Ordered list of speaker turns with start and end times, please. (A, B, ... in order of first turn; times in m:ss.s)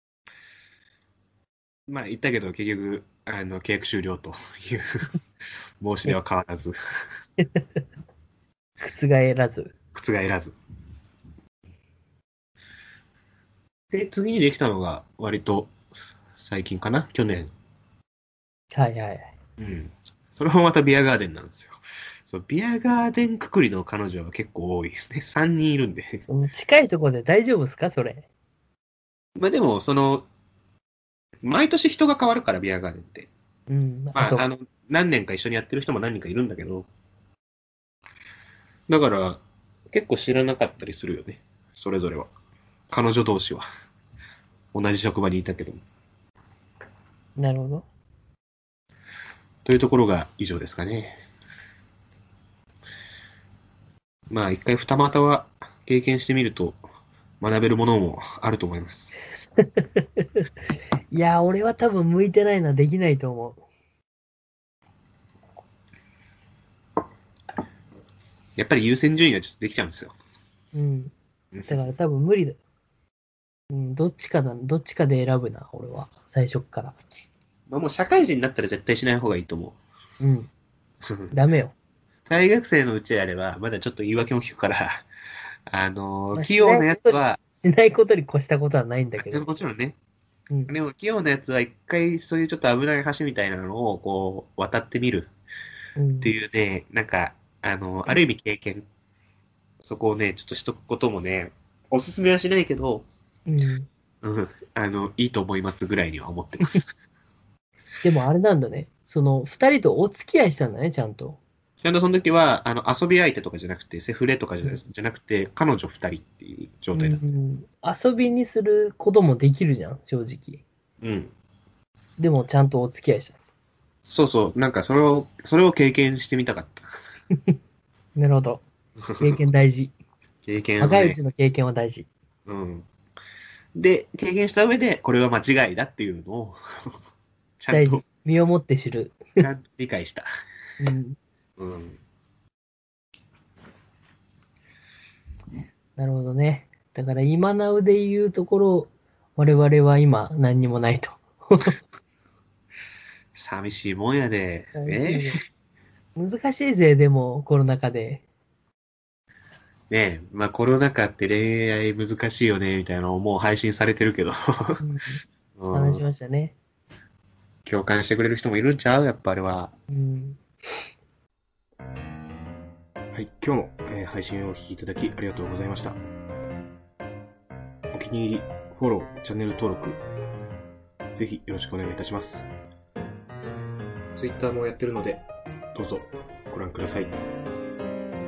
0:01.9-0:05.1 A
0:05.8-0:06.7 A
0:07.4-0:07.8 B
0:08.8-0:09.7 B
0:09.9-0:10.6 A
0:13.9-0:15.7 A
0:16.4-0:17.5 A
0:18.7-0:19.3 B
0:19.6-0:26.2 A
0:26.3-0:28.3 B
0:29.4-0:30.3 A
0:31.4-0:33.3 A
0:33.7-0:34.4 B
0:34.1-0:36.9 A
0:38.9-0:42.3 A
0:42.9-0:43.6 A
0:44.7-0:45.8 A
0:47.4-0:47.9 B
0:49.6-0:51.2 A
0:54.3-0:56.8 A
0:57.4-0:59.2 A
1:01.1-1:03.6 B
1:08.6-1:10.1 A
1:10.7-1:11.1 B
1:11.7-1:12.6 B
1:13.7-1:17.0 B
1:17.7-1:19.8 A
1:20.2-1:20.5 B
1:21.0-1:21.3 A
1:21.3-1:21.7 B
1:22.3-1:25.1 A
1:25.7-1:27.4 A
1:26.3-1:29.5 B
1:29.2-1:30.0 A
1:30.7-1:35.3 A
1:36.0-1:36.3 B
1:36.2-1:38.8 A
1:39.8-1:43.1 A
1:43.5-1:43.9 B
1:44.2-1:47.0 A
1:48.0-1:51.4 B
1:51.8-1:57.2 A
1:56.9-2:00.6 B
2:01.0-2:01.3 A
2:02.2-2:03.4 B
2:04.0-2:06.9 A
2:08.2-2:08.6 B
2:09.1-2:09.4 A
2:09.2-2:09.9 B
2:10.4-2:11.2 A
2:10.8-2:12.1 B
2:12.4-2:12.8 A
2:13.7-2:16.6 A
2:17.6-2:18.0 A
2:17.7-2:19.4 B
2:19.4-2:20.3 A
2:20.8-2:21.2 B
2:21.6-2:22.0 A
2:26.0-2:31.7 B
2:33.3-2:35.4 A
2:34.7-2:35.4 B
2:36.2-2:38.2 B
2:39.9-2:44.8 A
2:44.8-2:46.5 B
2:45.6-2:46.0 A
2:47.6-2:49.7 A
2:49.9-2:50.4 B
2:53.1-2:56.0 A
2:57.9-3:00.0 A
3:01.1-3:02.4 A
3:04.2-3:05.2 A
3:05.7-3:07.2 A